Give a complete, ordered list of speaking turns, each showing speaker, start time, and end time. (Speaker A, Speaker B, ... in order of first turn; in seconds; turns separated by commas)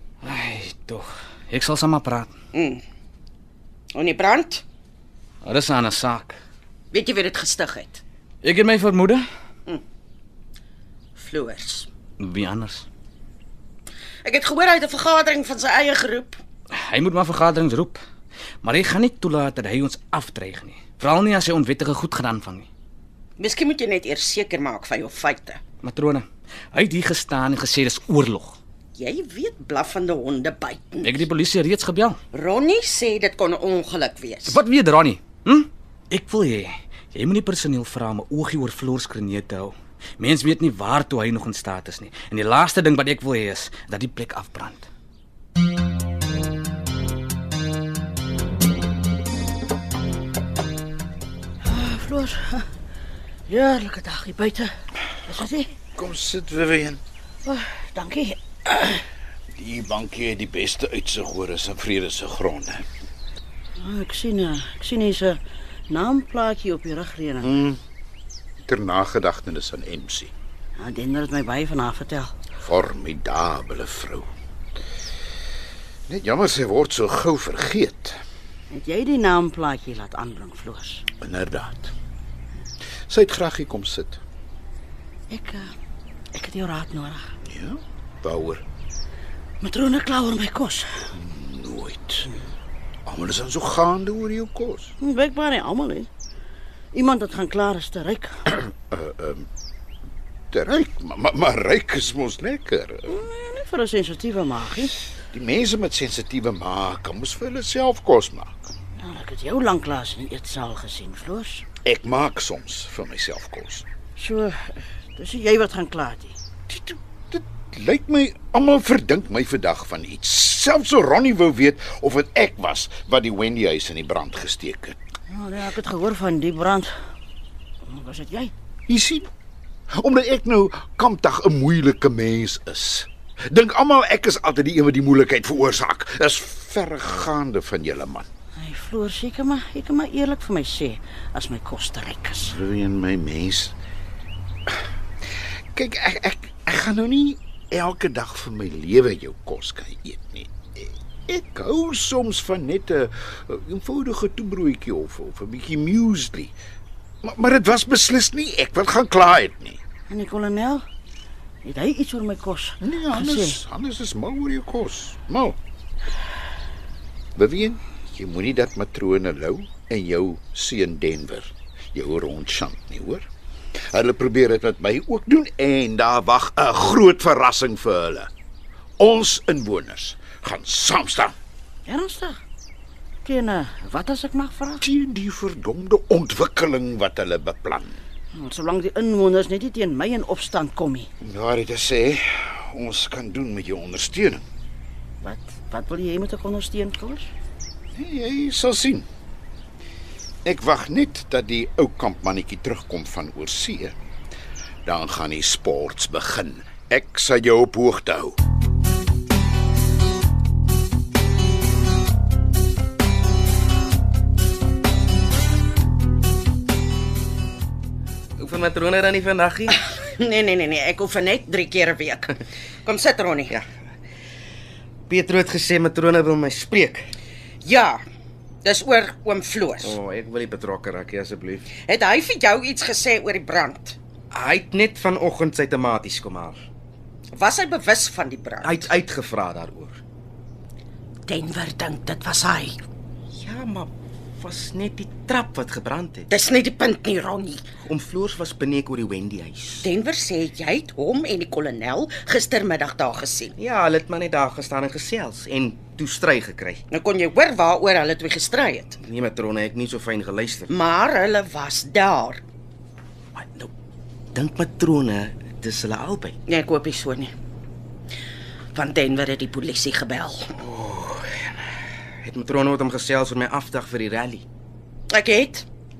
Speaker A: 0.2-2.3, Speaker B: 2.5-2.8, Speaker B: 3.9-4.6, Speaker A: 5.4-6.4, Speaker B: 6.9-8.0, Speaker A: 8.4-9.2, Speaker B: 11.2-11.8, Speaker A: 12.2-12.8, Speaker B: 14.2-16.4, Speaker A: 16.8-18.0, Speaker A: 18.6-22.7, Speaker B: 23.4-25.6, Speaker A: 25.8-28.6, Speaker B: 29.0-31.0, Speaker A: 31.0-32.2, Speaker B: 32.3-34.5, Speaker A: 34.5-44.9, Speaker C: 51.6-52.6, Speaker C: 53.5-54.7, Speaker C: 55.2-55.7, Speaker D: 56.0-57.0, Speaker C: 57.4-59.0, Speaker D: 59.5-62.8, Speaker C: 63.8-67.5, Speaker D: 67.4-67.8, Speaker D: 68.6-70.3, Speaker C: 70.8-72.3, Speaker D: 72.6-74.3, Speaker D: 76.1-78.2, Speaker C: 78.7-81.0, Speaker D: 81.2-81.9, Speaker D: 83.1-84.2, Speaker C: 85.3-85.7, Speaker C: 86.3-87.3, Speaker D: 87.4-88.6, Speaker C: 89.6-90.9, Speaker D: 91.1-92.3, Speaker D: 93.0-94.9, Speaker C: 95.0-96.1, Speaker C: 96.9-98.4, Speaker D: 98.5-99.5, Speaker D: 100.5-103.2, Speaker C: 103.1-105.0, Speaker D: 105.3-108.6, Speaker C: 109.0-111.6, Speaker D: 111.8-113.8, Speaker C: 114.2-116.4, Speaker D: 116.7-125.0, Speaker C: 125.3-126.9, Speaker C: 127.8-128.5, Speaker D: 128.9-129.3, Speaker D: 129.9-138.3, Speaker C: 138.6-142.6, Speaker D: 142.4-143.7, Speaker D: 145.7-156.5, Speaker D: 157.2-159.8, Speaker C: 160.1-160.8, Speaker C: 161.6-163.6, Speaker D: 162.8-165.6, Speaker D: 167.3-173.2, Speaker D: 173.9-178.3, Speaker D: 179.0-181.3, Speaker C: 181.8-182.4, Speaker C: 183.2-184.8, Speaker D: 184.8-188.0, Speaker C: 188.3-191.1, Speaker D: 191.2-194.4, Speaker C: 195.2-197.3, Speaker D: 197.9-199.1, Speaker D: 200.4-203.9, Speaker D: 204.8-208.4, Speaker E: 218.4-219.8, Speaker B: 219.7-222.3, Speaker B: 222.8-223.5, Speaker E: 225.1-227.1, Speaker B: 227.6-228.0, Speaker B: 228.6-229.8, Speaker E: 229.8-231.7, Speaker B: 231.7-234.0, Speaker E: 234.3-236.6, Speaker B: 237.3-238.8, Speaker E: 238.6-240.0, Speaker B: 241.3-242.8, Speaker E: 243.3-246.3, Speaker B: 246.3-247.6, Speaker E: 247.8-249.9, Speaker B: 249.8-253.5, Speaker E: 253.6-256.8, Speaker B: 256.9-258.9, Speaker E: 259.0-260.7, Speaker B: 260.7-262.4, Speaker E: 263.4-263.7, Speaker E: 264.3-266.4, Speaker B: 266.5-267.3, Speaker B: 268.7-270.4, Speaker E: 270.5-271.4, Speaker E: 272.2-274.4, Speaker B: 275.1-275.6